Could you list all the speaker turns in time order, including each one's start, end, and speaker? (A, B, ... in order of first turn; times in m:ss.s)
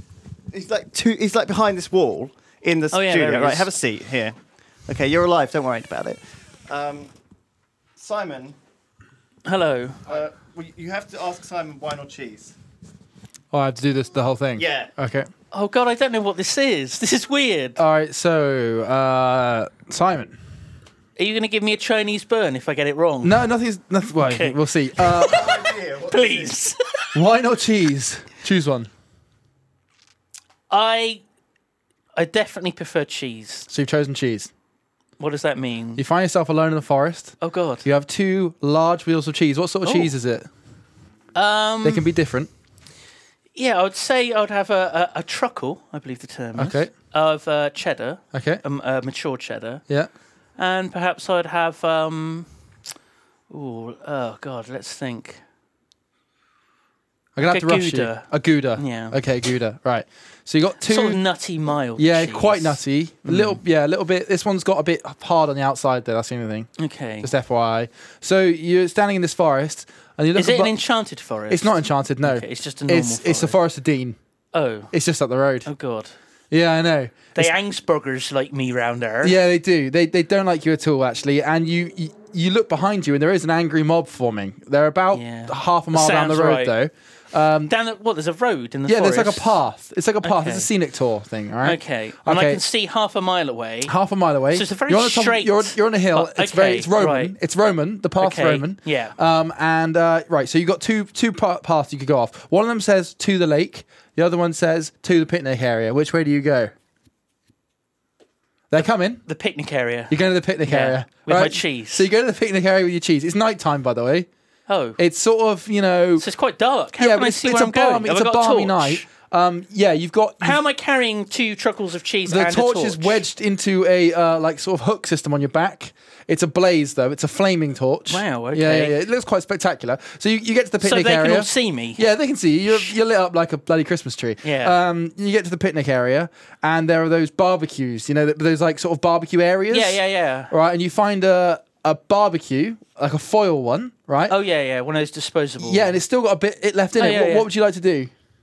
0:00.5-0:04.4 A
0:02.9-0:03.7 B
0:04.9-0:07.1 A
0:08.0-0:08.6 A
0:09.4-0:10.0 B
0:10.1-0:12.6 A
0:13.5-0:15.3 C
0:14.6-0:14.9 A
0:15.5-0:17.8 B
0:17.8-0:20.4 C
0:21.2-0:23.4 B
0:23.2-0:25.4 C
0:24.1-0:27.2 B
0:25.2-0:26.7 A
0:27.2-0:28.9 C
0:30.7-0:31.2 B
0:32.2-0:33.7 B
0:33.7-0:34.5 C
0:35.2-0:36.0 B
0:36.0-0:40.5 C
0:37.4-0:37.8 B
0:39.8-0:40.1 B
0:41.4-0:42.1 B
0:41.8-0:42.5 C
0:43.6-0:49.8 B
0:46.6-0:46.9 C
0:48.3-0:48.6 C
0:50.6-0:52.5 B
0:53.5-0:55.4 B
0:57.4-1:01.2 C
0:57.4-0:59.2 B
1:00.9-1:03.6 B
1:02.0-1:06.7 C
1:06.8-1:07.3 B
1:07.2-1:10.7 C
1:10.4-1:13.6 B
1:11.5-1:14.2 C
1:14.5-1:14.9 B
1:14.9-1:15.7 C
1:15.6-1:16.1 B
1:16.5-1:17.5 C
1:17.4-1:19.4 B
1:19.2-1:27.7 C
1:25.1-1:26.8 B
1:27.7-1:29.6 B
1:28.9-1:32.6 C
1:30.2-1:30.7 B
1:31.6-1:33.9 B
1:33.9-1:46.7 C
1:34.5-1:37.3 B
1:38.2-1:39.2 B
1:48.7-1:49.2 C
1:49.3-1:52.1 B
1:50.1-1:54.3 C
1:54.7-1:55.0 B
1:55.0-1:56.3 C
1:56.2-1:59.0 B
1:57.0-2:00.6 C
2:00.4-2:03.2 B
2:02.3-2:24.4 C
2:08.1-2:09.0 B
2:10.8-2:12.1 B
2:14.4-2:14.8 B
2:19.7-2:20.5 B
2:24.3-2:26.0 B
2:25.6-2:28.1 C
2:27.0-2:27.5 B